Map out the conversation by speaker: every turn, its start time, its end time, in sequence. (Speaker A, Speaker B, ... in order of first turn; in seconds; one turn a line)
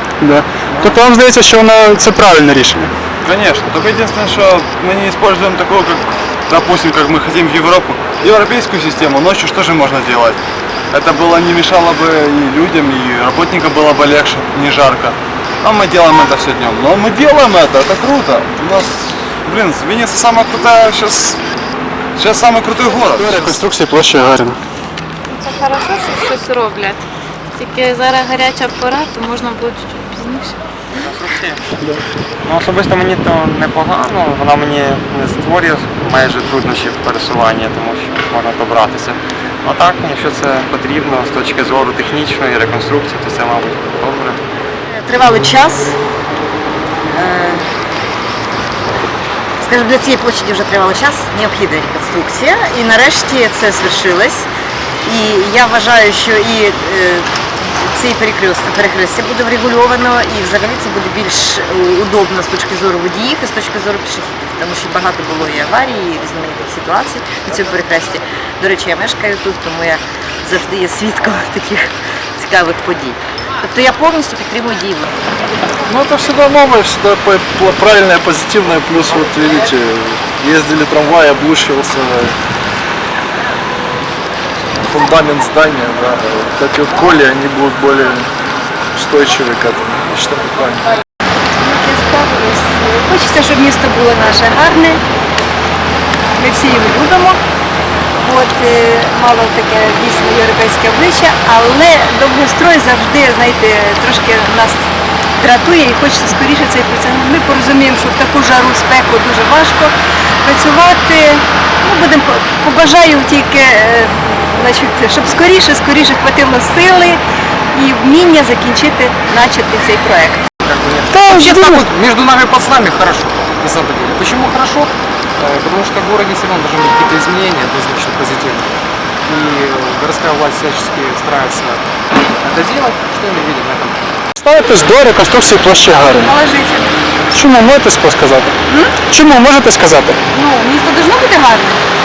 Speaker A: 0.2-2.9
Speaker B: 0.7-1.1
Speaker B: 3.2-10.4
Speaker B: 10.9-21.4
Speaker B: 22.2-23.6
Speaker A: 23.1-24.6
Speaker C: 25.3-27.1
Speaker C: 27.6-30.6
Speaker D: 31.0-31.6
Speaker D: 32.5-44.4
Speaker E: 44.9-46.0
Speaker E: 47.1-47.7
Speaker E: 49.6-54.5
Speaker E: 55.0-75.1
Speaker F: 75.8-82.4
Speaker F: 84.8-88.3
Speaker F: 88.9-90.9
Speaker G: 91.6-95.0
Speaker G: 96.3-97.4
Speaker G: 98.2-104.8
Speaker G: 105.4-117.2
Speaker G: 117.7-120.5
Speaker H: 120.7-128.7
Speaker A: 121.1-121.9
Speaker H: 129.2-131.9
Speaker H: 132.4-134.0
Speaker A: 134.4-136.3
Speaker G: 136.2-136.9
Speaker A: 137.3-138.5
Speaker G: 138.7-138.9
Speaker A: 139.1-140.2
Speaker G: 140.3-141.8